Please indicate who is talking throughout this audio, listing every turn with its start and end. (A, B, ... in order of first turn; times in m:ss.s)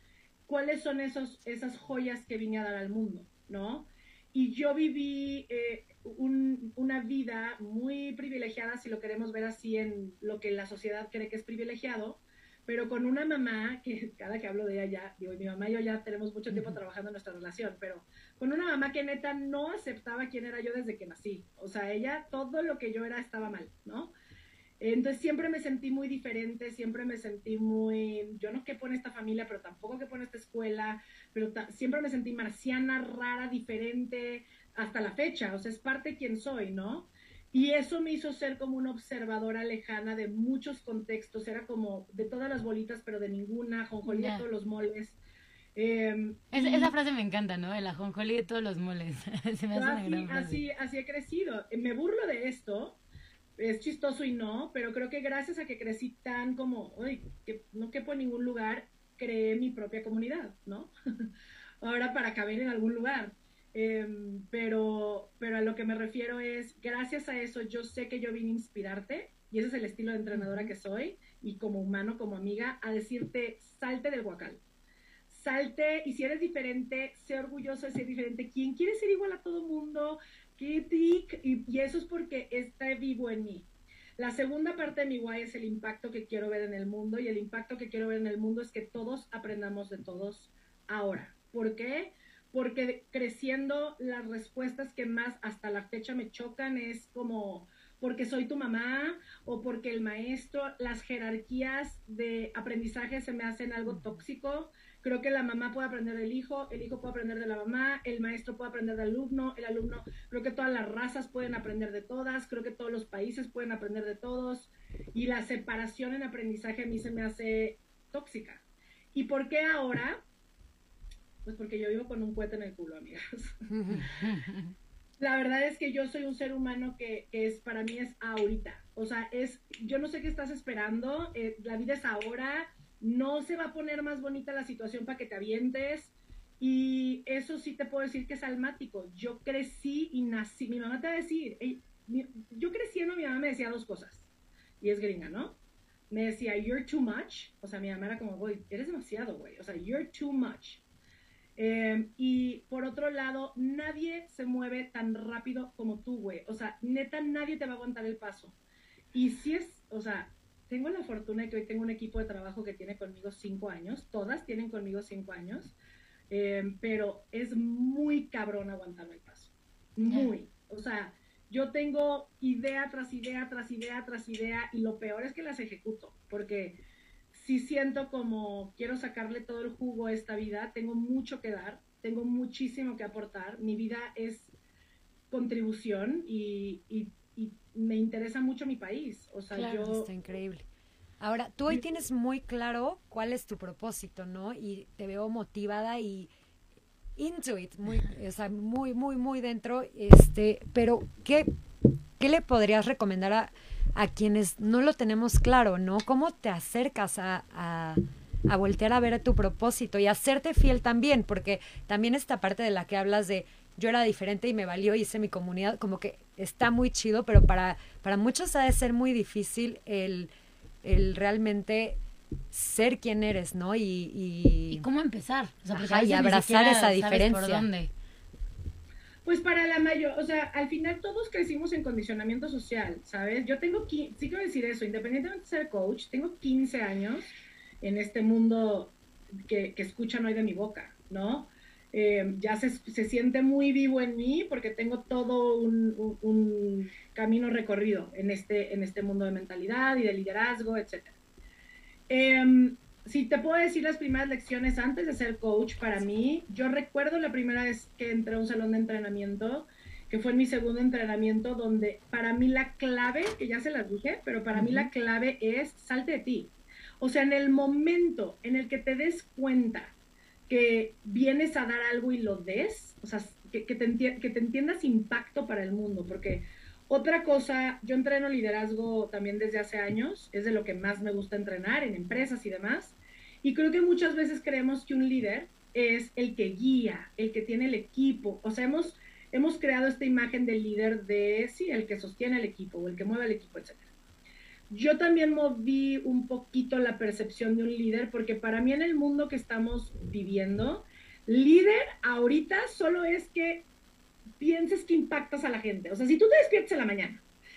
0:00.5-0:24.1 A
0:16.5-0:16.8 B
0:24.8-0:45.2 A
0:44.1-0:44.5 C
0:45.8-0:46.9 A
0:46.5-0:50.6 C
0:49.7-0:53.0 A
0:53.6-1:00.9 A
1:01.8-1:14.6 A
1:10.3-1:10.7 B
1:15.3-1:58.6 A
1:43.9-1:44.2 B
1:59.1-2:00.2 A
2:01.4-2:04.2 A
2:03.8-2:04.0 B
2:03.9-2:04.7 C
2:05.2-2:24.3 A
2:24.8-2:25.6 A
2:26.1-2:30.8 A
2:31.6-2:38.6 A
2:39.1-2:45.8 A
2:46.3-2:56.8 A
2:50.0-2:50.3 C
2:57.3-3:04.5 A
3:05.3-3:10.1 A
3:09.5-3:10.7 B
3:11.2-3:16.3 B
3:17.2-3:21.5 B
3:22.2-3:40.3 B
3:40.8-3:42.0 B
3:42.5-3:44.8 B
3:44.7-3:47.9 C
3:45.7-3:47.7 B
3:49.3-3:59.0 A
3:59.5-4:11.1 A
4:12.1-4:30.0 A
4:24.5-4:24.9 B
4:30.5-4:53.9 A
4:54.7-5:03.7 A
5:04.4-5:07.2 A